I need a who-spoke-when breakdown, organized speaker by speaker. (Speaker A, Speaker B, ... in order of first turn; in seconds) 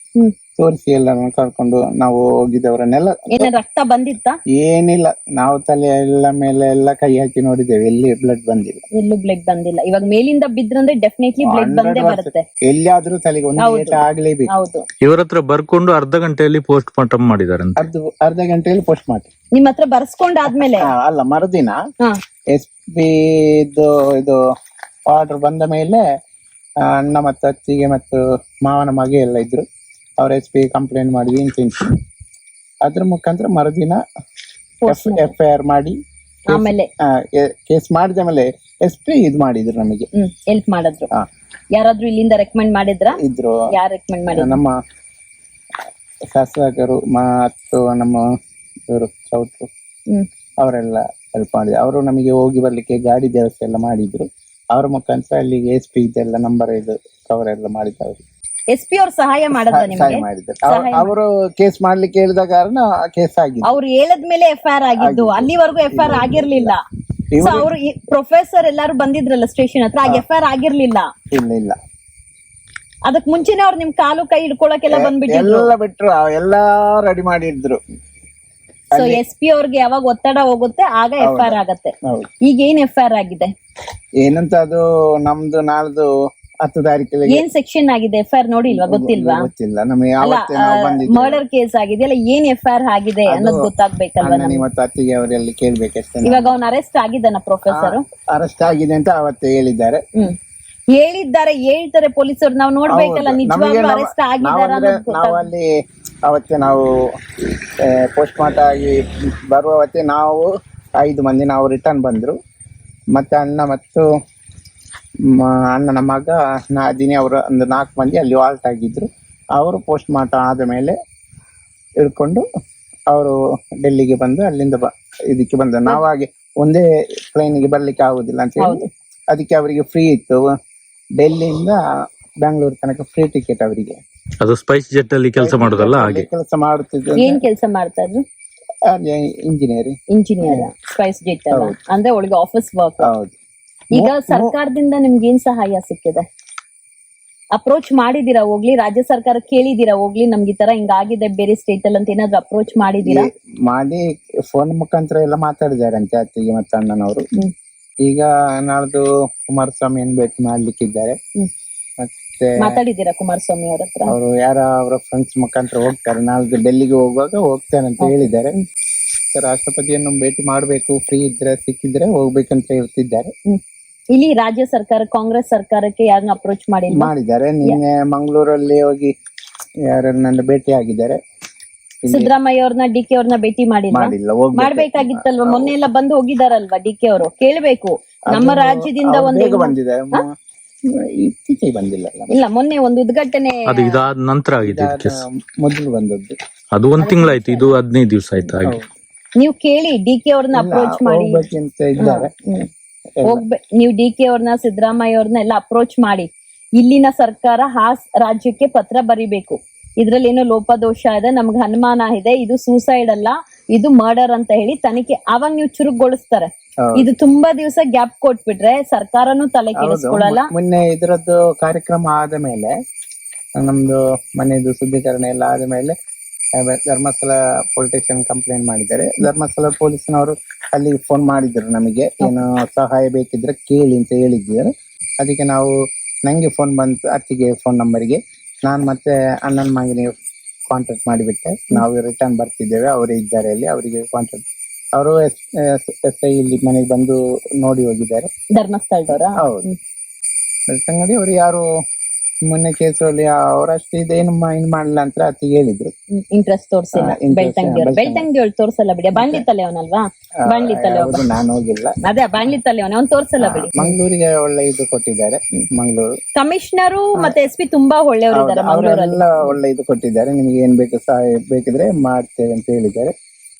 Speaker A: 0.6-3.5, 4.5-8.8, 11.4-14.5, 17.8-19.3, 20.5-21.8, 22.5-24.4, 25.1-26.0, 26.8-29.6, 30.2-31.9, 32.8-34.0, 34.9-36.0, 36.5-40.1, 43.1-43.6, 44.3-44.8, 46.3-48.2, 48.9-49.7, 50.6-58.2, 59.6-63.8, 65.0-66.7, 67.3-67.7, 71.3-71.8, 74.9-77.8, 78.9-79.2, 81.2-82.3, 84.2-86.1, 86.6-87.4, 88.7-91.4, 93.3-93.7, 94.2-96.5, 97.7-100.0, 102.9-105.7, 106.2-107.0, 107.8-110.5, 111.0-112.3, 113.1-114.0, 115.2-121.0, 122.0-122.5, 123.1-130.5, 131.2-131.8, 132.4-134.0, 135.4-137.4, 138.9-140.7, 143.0-143.3, 143.9-144.5, 153.0-157.3, 158.0-161.2, 162.0-162.8, 164.1-168.6, 169.3-173.3, 176.9-179.1, 179.8-181.2, 182.0-182.3, 183.9-185.7, 188.3-190.3, 190.9-192.3, 194.6-196.3, 200.5-202.3, 216.8-217.1, 219.8-222.7, 223.6-225.9, 226.6-240.1, 240.7-244.4, 244.9-248.3, 249.4-249.7, 250.7-251.7, 252.4-255.9, 256.9-258.2, 259.1-259.4, 260.4-262.0, 263.4-266.1, 268.3-273.1
Speaker B: 3.3-4.4, 8.9-12.4, 13.6-14.8, 19.5-20.9, 34.8-35.3, 36.5-36.9, 40.1-41.1, 41.7-43.2, 43.7-44.6, 58.7-61.1, 63.6-66.8, 67.4-71.1, 73.0-75.7, 78.9-83.5, 87.3-89.5, 90.2-94.6, 96.2-98.0, 100.9-105.5, 137.2-138.2, 140.1-143.1, 143.9-146.2, 147.5-153.3, 162.6-164.1, 168.0-168.6, 174.1-177.1, 182.1-190.2, 192.3-194.0, 197.0-197.7, 199.4-201.4, 202.0-202.7, 203.2-220.5, 248.5-249.8, 256.1-261.2, 262.0-264.0, 266.3-269.6
Speaker C: 15.0-17.8, 134.4-136.2, 193.7-195.2, 196.7-198.8